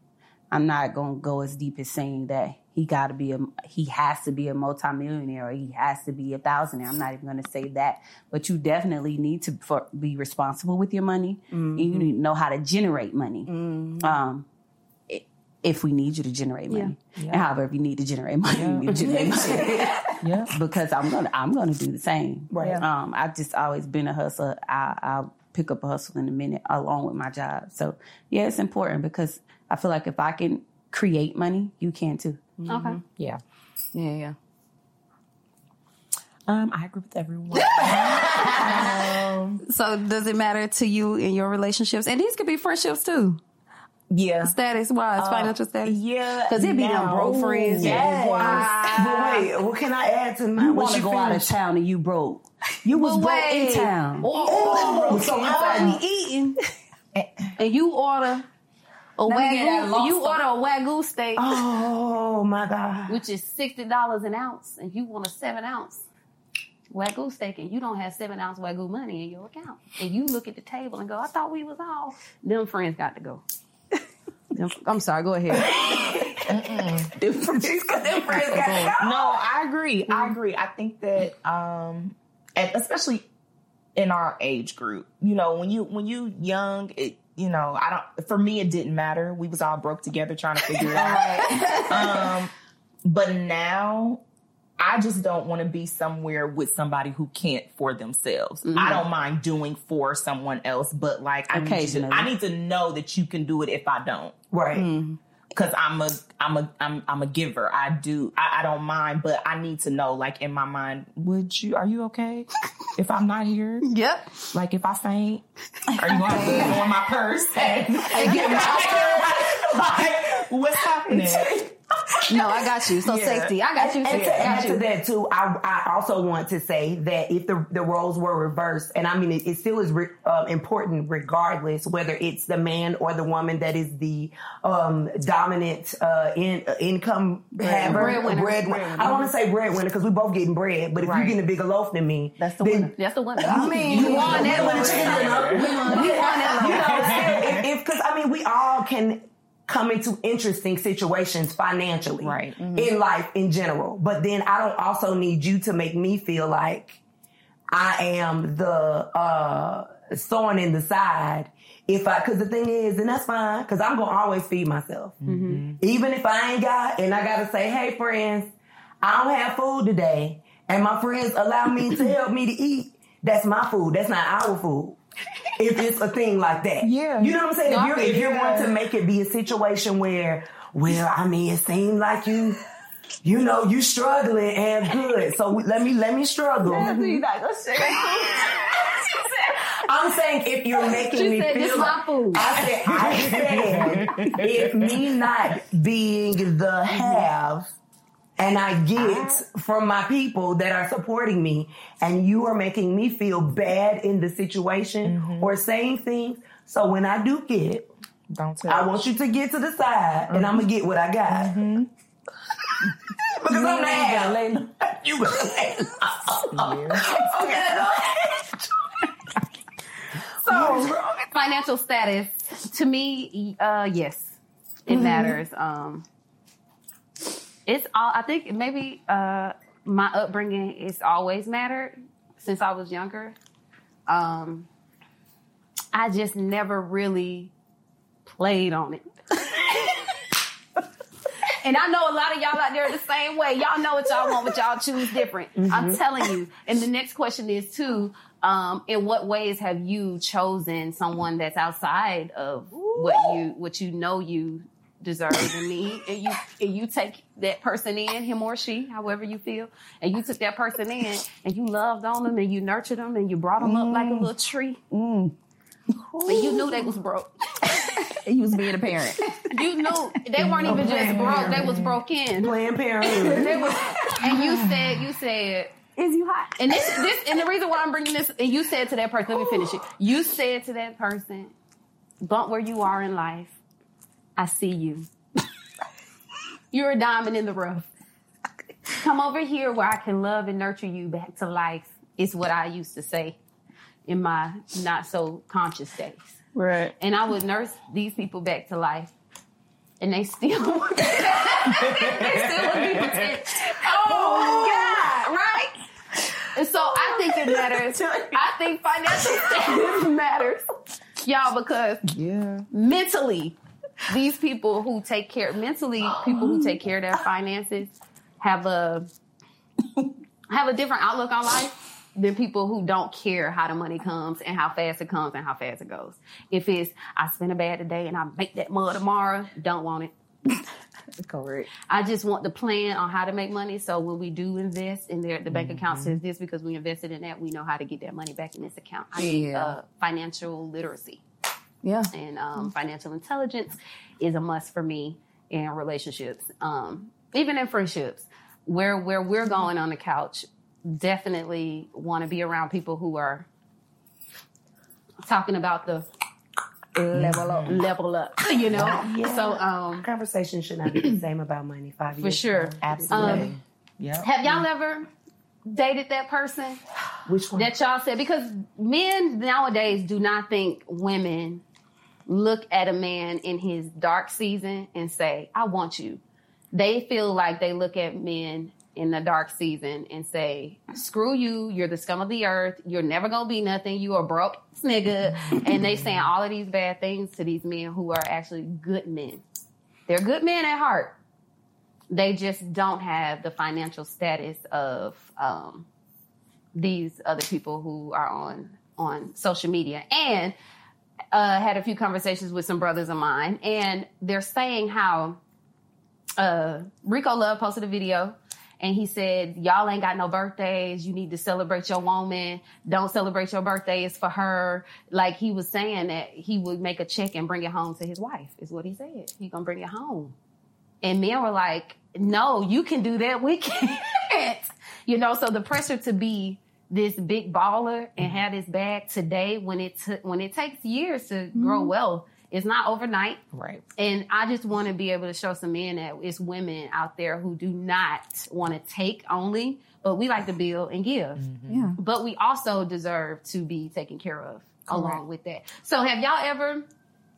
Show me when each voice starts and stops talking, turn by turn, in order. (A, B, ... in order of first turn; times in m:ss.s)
0:00.5-0:14.4 A
0:11.5-0:12.1 B
0:13.5-0:14.2 B
0:15.1-0:32.4 A
0:16.7-0:16.9 C
0:17.2-0:17.5 D
0:18.5-0:19.6 D
0:18.9-0:20.0 B
0:20.2-0:20.5 D
0:22.5-0:22.8 E
0:32.6-0:33.0 B
0:32.7-0:33.0 C
0:33.2-0:33.4 D
0:33.9-0:34.4 B
0:36.5-0:39.6 D
0:37.6-0:39.0 C
0:38.2-0:38.8 B
0:39.6-0:43.4 C
0:44.1-0:44.6 D
0:44.4-0:49.5 C
0:45.2-0:48.6 D
0:47.8-0:51.6 E
0:47.9-0:48.8 B
0:50.6-0:54.3 A
0:52.9-0:56.6 C
0:54.4-0:56.0 E
0:54.6-0:55.2 D
0:57.1-0:57.5 D
0:57.6-0:58.4 C
0:59.2-1:01.6 C
0:59.2-1:00.4 B
1:01.4-1:03.2 E
1:03.1-1:06.0 C
1:06.9-1:13.4 C
1:14.5-1:15.9 C
1:16.5-1:17.1 D
1:17.2-1:17.8 A
1:17.4-1:19.4 B
1:18.5-1:23.3 D
1:18.5-1:18.9 E
1:20.1-1:20.3 C
1:24.0-1:31.3 D
1:30.9-1:32.3 B
1:31.1-1:32.1 A
1:31.9-1:32.5 D
1:33.0-1:34.2 D
1:34.8-1:44.4 D
1:38.6-1:39.0 C
1:41.5-1:42.3 A
1:44.5-1:44.8 E
1:44.7-1:45.2 B
1:45.5-1:53.9 D
1:53.8-1:54.3 C
1:54.5-2:03.5 D
1:56.2-1:56.6 A
1:56.3-1:56.7 B
1:57.6-1:59.5 E
1:58.1-1:59.2 B
1:58.2-1:59.1 C
2:02.3-2:04.8 C
2:03.7-2:37.0 E
2:04.1-2:04.6 D
2:17.6-2:19.2 B
2:17.9-2:18.6 C
2:21.0-2:21.4 D
2:22.4-2:22.9 B
2:22.9-2:27.1 C
2:23.4-2:27.1 B
2:23.9-2:25.6 D
2:26.9-2:27.6 D
2:32.2-2:32.6 D
2:32.5-2:32.9 B
2:37.7-2:45.2 E
2:45.2-2:45.8 D
2:45.2-2:45.6 C
2:45.8-2:55.0 E
2:55.5-3:02.6 E
2:56.8-2:58.7 D
3:03.2-3:07.0 E
3:06.6-3:08.8 A
3:06.7-3:07.2 B
3:09.8-3:17.8 E
3:11.0-3:12.5 C
3:12.6-3:15.0 D
3:18.4-3:27.9 E
3:19.0-3:19.4 D
3:25.0-3:25.5 D
3:28.3-3:28.9 D
3:28.7-3:31.6 E
3:30.3-3:30.6 D
3:31.3-3:31.9 D
3:32.8-3:34.4 D
3:33.3-3:37.8 E
3:36.5-3:37.1 D
3:37.0-3:38.1 B
3:40.4-3:46.0 C
3:40.5-3:41.0 D
3:44.9-3:45.3 E
3:47.6-3:53.4 C
3:54.1-3:54.7 C
3:55.9-3:57.5 C
3:58.2-4:00.0 C
4:01.5-4:24.8 C
4:05.6-4:06.0 E
4:26.2-4:26.6 B
4:26.3-4:27.3 C
4:28.0-4:29.2 B
4:29.5-4:35.7 C
4:30.6-4:31.8 E
4:32.4-4:33.6 E
4:36.0-4:37.1 B
4:36.6-4:41.5 C
4:42.2-4:43.6 C
4:44.4-4:45.1 C
4:46.7-4:47.9 C
4:48.9-4:53.4 C
4:54.0-4:56.4 C
4:56.6-4:56.8 B
4:57.0-4:59.1 C
5:00.0-5:05.7 C
5:01.9-5:03.2 D
5:02.3-5:03.3 B
5:02.9-5:03.2 A
5:04.1-5:04.9 B
5:06.5-5:12.0 C
5:07.9-5:08.3 B
5:12.1-5:12.6 D
5:12.7-5:19.1 C
5:20.5-5:30.1 C
5:31.2-5:31.7 B
5:31.9-5:41.2 C
5:35.5-5:36.2 D
5:39.2-5:39.7 B
5:41.8-5:42.1 B
5:42.1-5:53.5 C
5:55.2-5:56.1 C
5:57.0-5:57.8 B
5:57.1-5:57.8 D
5:57.6-6:00.1 C
5:58.7-6:03.5 E
6:00.9-6:01.2 C
6:02.2-6:03.5 C
6:02.8-6:04.3 D
6:04.2-6:05.1 C
6:05.6-6:06.8 C
6:07.2-6:07.7 E
6:07.6-6:11.6 C
6:12.3-6:16.2 C
6:16.7-6:29.4 C
6:25.9-6:26.2 D
6:30.1-6:31.2 C
6:32.1-6:35.9 C
6:36.7-6:40.5 C
6:41.3-6:45.4 C
6:46.4-7:00.3 C
7:01.0-7:13.4 C
7:11.5-7:11.9 B
7:13.5-7:13.8 D
7:14.0-7:21.4 C
7:21.4-7:21.9 D
7:21.7-7:22.0 B
7:22.0-7:26.9 C
7:24.9-7:25.2 B